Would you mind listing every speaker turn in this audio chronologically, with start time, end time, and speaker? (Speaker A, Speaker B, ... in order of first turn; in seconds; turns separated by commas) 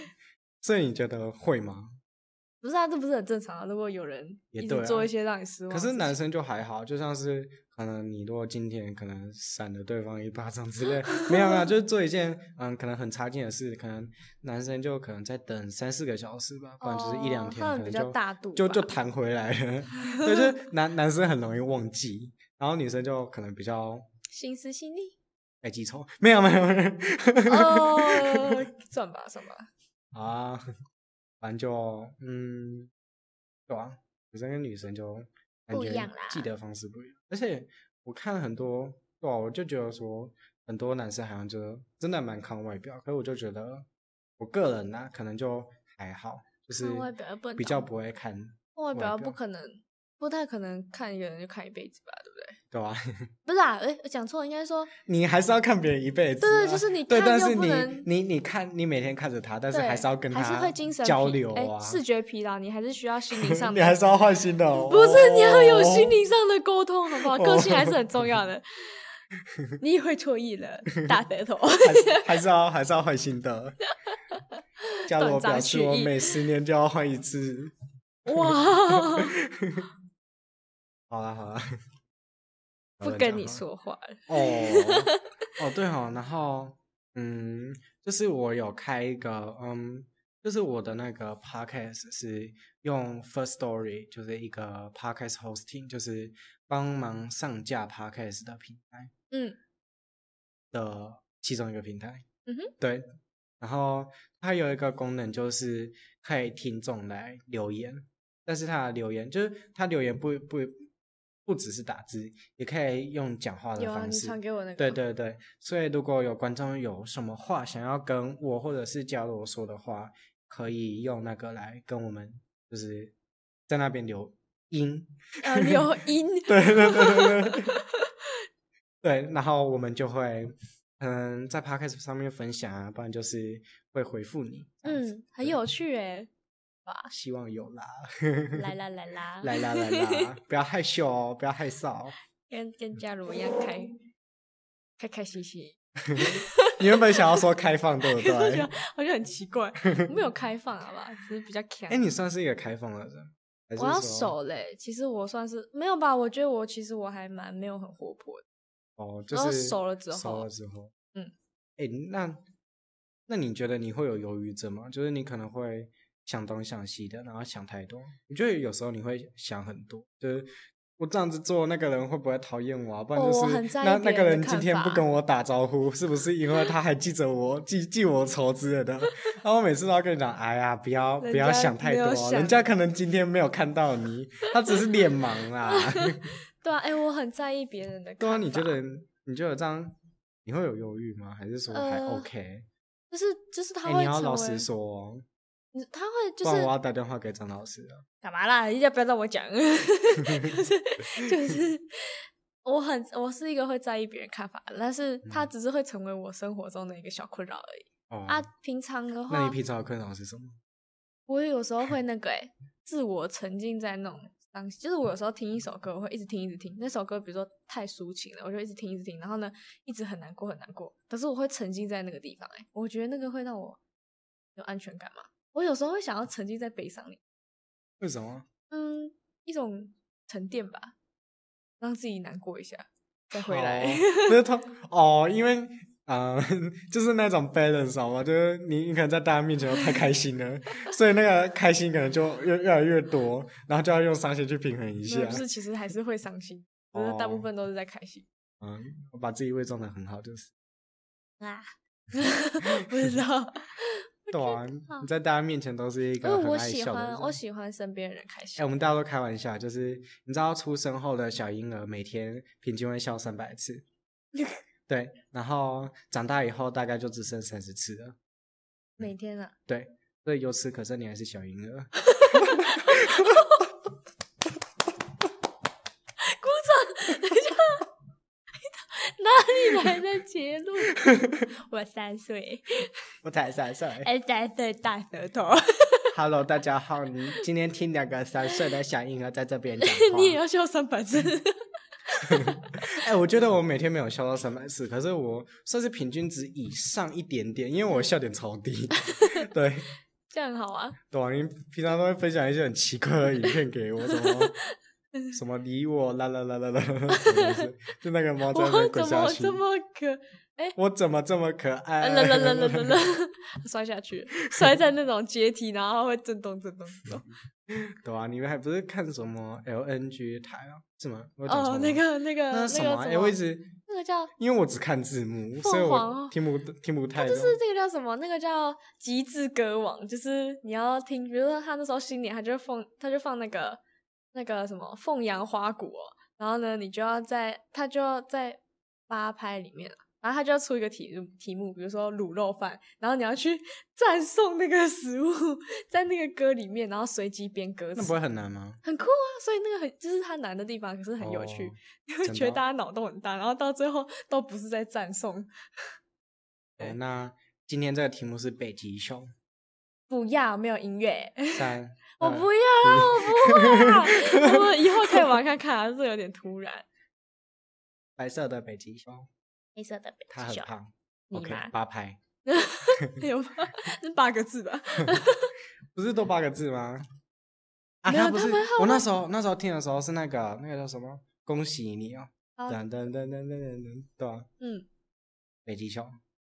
Speaker A: 0.6-1.9, Speaker B: 2.6-6.2, Speaker A: 4.5-5.1, Speaker A: 5.7-24.1, Speaker B: 11.1-11.7, Speaker B: 16.8-18.9, Speaker B: 20.1-20.5, Speaker B: 24.3-25.1, Speaker A: 25.6-28.7, Speaker B: 27.4-29.7, Speaker A: 30.1-30.6, Speaker A: 31.4-32.9, Speaker A: 33.7-43.9, Speaker B: 35.7-36.5, Speaker A: 44.4-49.4, Speaker B: 46.8-47.8, Speaker B: 48.8-52.6, Speaker A: 52.7-53.3, Speaker B: 53.5-54.9, Speaker A: 55.0-62.0, Speaker B: 56.4-58.1, Speaker B: 59.7-64.0, Speaker A: 63.3-66.2, Speaker B: 64.7-69.2, Speaker A: 67.1-68.0, Speaker B: 69.8-72.3, Speaker A: 71.8-73.8, Speaker B: 74.1-76.3, Speaker A: 75.0-77.7, Speaker B: 78.2-79.3, Speaker A: 78.2-79.9, Speaker A: 81.1-81.7, Speaker A: 83.0-83.6, Speaker B: 83.0-85.2, Speaker A: 84.3-99.1, Speaker B: 99.3-99.6, Speaker A: 100.7-102.2, Speaker B: 102.5-102.7, Speaker A: 102.8-103.0, Speaker A: 103.6-110.9, Speaker A: 111.5-123.1, Speaker B: 113.8-115.0, Speaker A: 123.7-125.8, Speaker B: 125.4-128.3, Speaker A: 126.5-127.7, Speaker A: 129.0-135.6, Speaker B: 134.8-136.3, Speaker B: 136.8-137.1, Speaker A: 137.1-138.7, Speaker B: 138.5-140.3, Speaker A: 139.4-142.2, Speaker B: 142.5-143.9, Speaker B: 145.0-147.4, Speaker A: 146.1-148.7, Speaker B: 148.1-152.0, Speaker A: 151.9-154.3, Speaker B: 153.8-158.4, Speaker A: 159.0-160.9, Speaker B: 159.3-160.5, Speaker A: 161.8-162.4, Speaker A: 163.3-186.3, Speaker B: 173.1-175.0, Speaker B: 181.2-182.6, Speaker B: 185.6-188.8, Speaker A: 188.2-192.7, Speaker B: 191.7-192.3, Speaker B: 193.1-194.7, Speaker A: 193.8-195.2, Speaker B: 195.7-196.7, Speaker A: 196.4-198.0, Speaker B: 198.2-209.6, Speaker A: 208.1-208.5, Speaker A: 209.3-210.6, Speaker B: 211.3-223.8, Speaker B: 224.6-227.2, Speaker A: 228.0-228.4, Speaker B: 228.7-230.9, Speaker B: 231.8-234.4, Speaker A: 233.3-245.4, Speaker B: 245.1-248.2, Speaker A: 246.9-247.5, Speaker A: 248.6-250.5, Speaker B: 251.4-255.1, Speaker A: 254.3-257.4, Speaker B: 256.2-258.7, Speaker A: 258.6-263.9, Speaker A: 264.9-268.2, Speaker B: 269.0-269.5, Speaker A: 269.7-273.4, Speaker B: 272.1-273.7, Speaker B: 276.2-277.9, Speaker B: 278.6-282.9, Speaker A: 283.2-284.1, Speaker B: 284.0-286.1, Speaker A: 286.1-290.4, Speaker B: 289.8-293.0, Speaker A: 292.2-299.9, Speaker B: 299.0-299.4, Speaker B: 300.3-301.0, Speaker A: 301.1-304.6, Speaker B: 304.0-305.4, Speaker A: 305.3-309.6, Speaker B: 307.1-307.6, Speaker B: 308.5-310.8, Speaker A: 310.8-313.0, Speaker B: 312.0-317.3, Speaker A: 317.7-323.7, Speaker B: 321.5-324.3, Speaker A: 324.4-327.6, Speaker B: 325.6-326.3, Speaker B: 327.1-333.8, Speaker B: 334.3-348.1, Speaker A: 347.9-348.8, Speaker B: 348.8-355.5, Speaker A: 351.2-352.6, Speaker A: 356.8-359.3, Speaker B: 360.1-366.8, Speaker A: 361.5-365.2, Speaker A: 368.2-369.3, Speaker B: 369.8-370.7, Speaker A: 370.3-372.2, Speaker B: 371.3-371.7, Speaker B: 372.4-375.5, Speaker A: 375.9-377.1, Speaker A: 378.0-384.5, Speaker B: 378.1-379.1, Speaker B: 384.6-384.9, Speaker A: 385.6-386.2